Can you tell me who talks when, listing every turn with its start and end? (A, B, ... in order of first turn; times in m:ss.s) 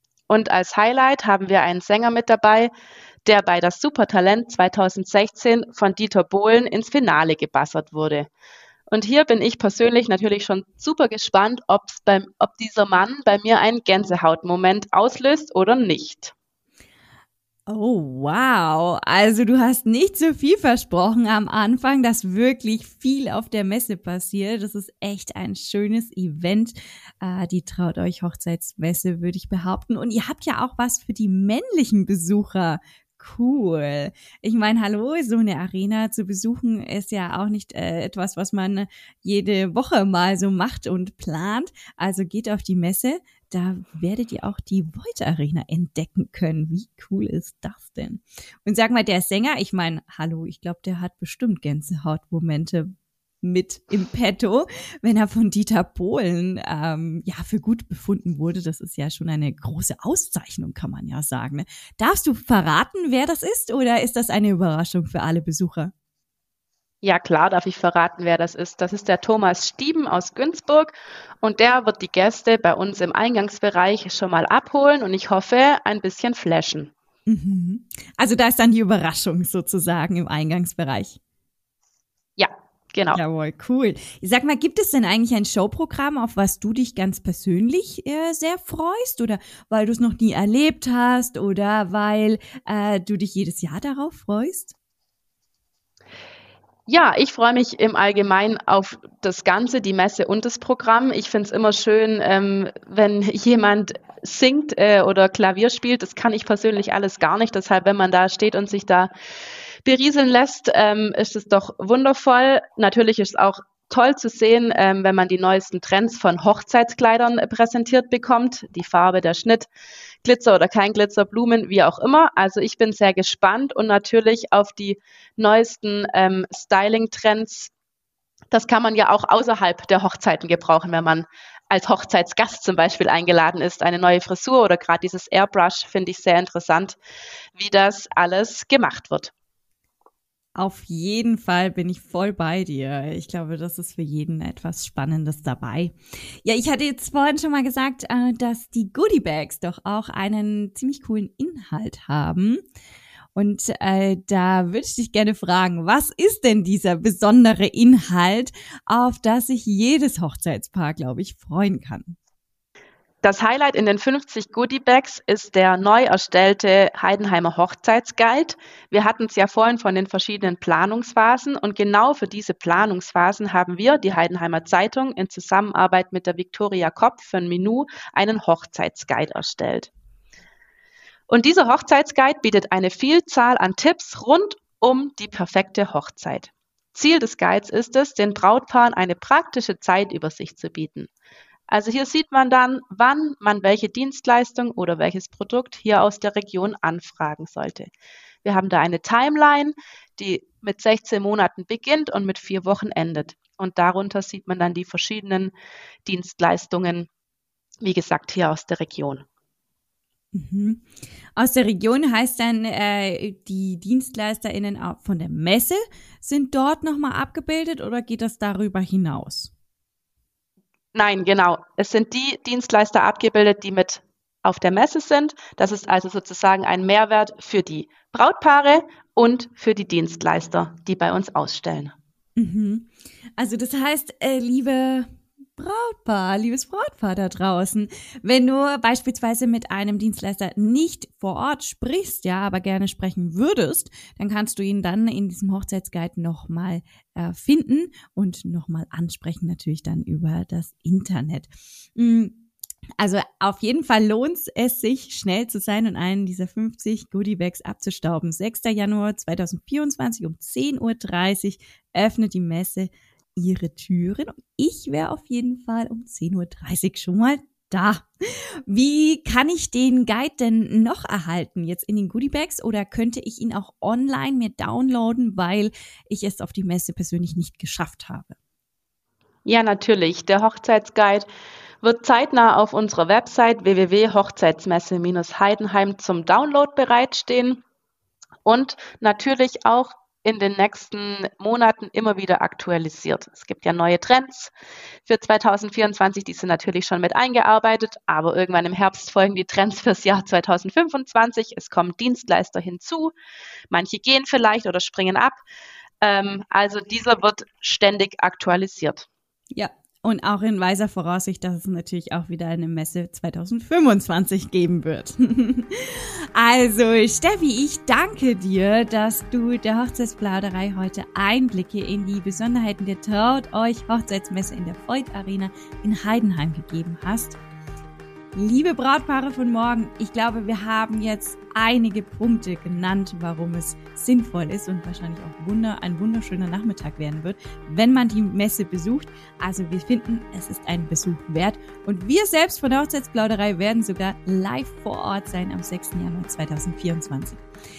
0:00.3-0:02.7 A
0:03.2-0:08.3 A
0:08.9-0:16.3 A
0:17.7-0:52.9 B
0:53.4-1:05.9 B
1:07.0-1:16.9 A
1:17.3-1:21.2 B
1:22.4-1:23.2 A
1:23.1-1:34.7 B
1:36.9-1:49.1 A
1:49.8-1:59.7 A
2:00.2-2:07.7 A
2:08.5-2:17.0 A
2:17.5-2:19.3 A
2:20.6-2:32.6 B
2:33.4-2:42.2 B
2:43.2-2:59.9 A
3:01.3-3:11.1 A
3:11.7-3:17.9 A
3:18.4-3:25.5 A
3:26.0-3:27.1 A
3:27.8-3:29.2 A
3:30.3-3:39.5 B
3:40.9-3:51.9 A
3:52.4-4:12.4 B
4:13.0-4:28.1 B
4:28.6-4:38.4 B
4:39.4-4:41.3 A
4:41.8-4:47.6 A
4:48.4-4:54.5 A
4:55.0-5:03.2 A
5:03.7-5:05.4 A
5:06.0-5:09.1 A
5:09.5-5:27.4 B
5:28.3-5:47.4 B